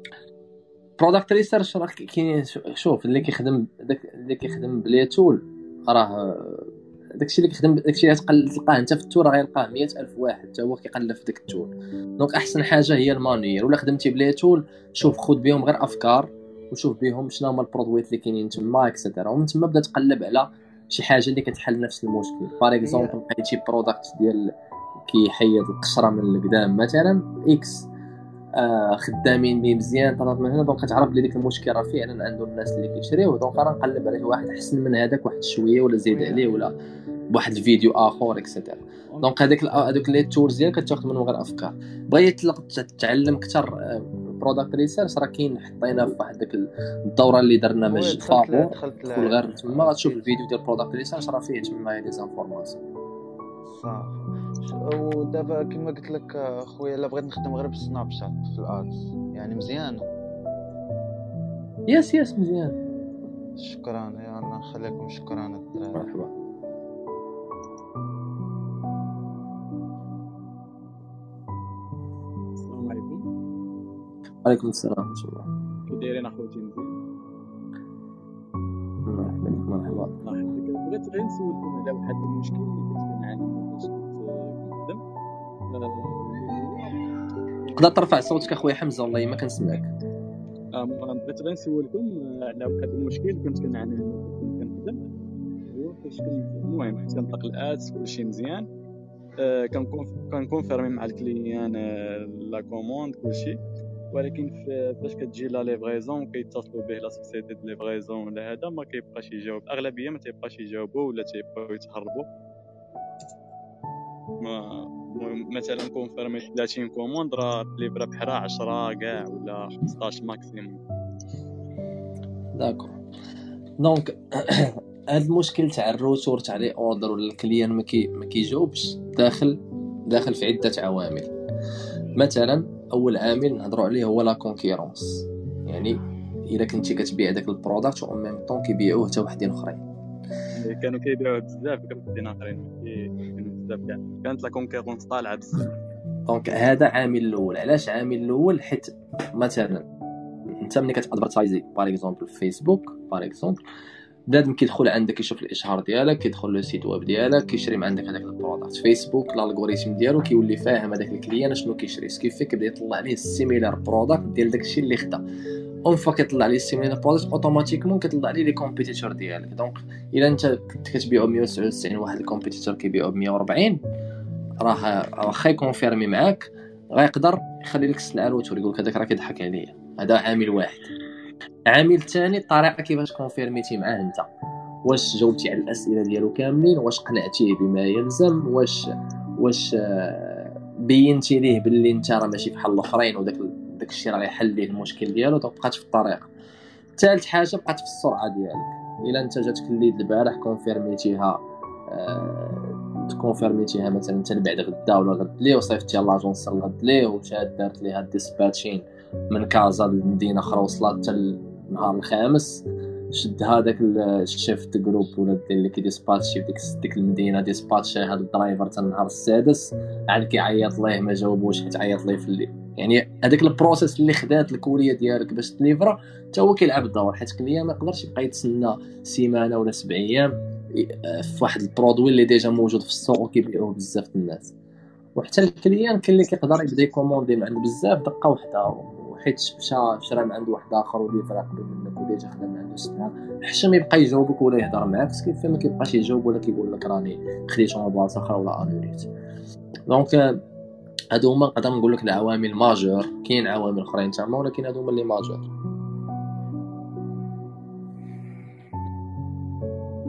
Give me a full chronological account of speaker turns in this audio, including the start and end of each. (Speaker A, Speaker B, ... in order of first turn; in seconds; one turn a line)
Speaker A: 1.0-24.5
Speaker B: 22.8-23.2
Speaker A: 25.1-27.9
Speaker A: 28.6-36.7
Speaker A: 37.3-52.8
Speaker B: 47.8-50.3
Speaker B: 53.6-60.1
Speaker A: 61.9-62.7
Speaker B: 63.6-66.1
Speaker A: 65.9-66.3
Speaker C: 72.6-73.2
Speaker A: 74.4-75.5
Speaker C: 75.9-76.9
Speaker A: 79.1-80.1
Speaker C: 80.2-85.0
Speaker C: 85.7-87.0
Speaker A: 87.8-89.9
Speaker C: 90.7-95.0
Speaker C: 95.7-98.7
Speaker C: 99.4-103.6
Speaker C: 104.1-112.3
Speaker C: 114.4-120.8
Speaker A: 122.5-122.9
Speaker A: 123.8-131.3
Speaker A: 132.2-135.9
Speaker A: 136.5-139.8
Speaker C: 140.6-145.7
Speaker A: 146.3-149.8
Speaker A: 150.6-153.6
Speaker A: 154.3-165.2
Speaker A: 165.8-173.8
Speaker A: 174.6-180.9
Speaker A: 181.7-184.3
Speaker A: 184.8-188.8
Speaker A: 189.4-196.3
Speaker A: 197.0-234.5
Speaker A: 235.2-249.1
Speaker A: 249.9-250.4
Speaker A: 251.1-255.4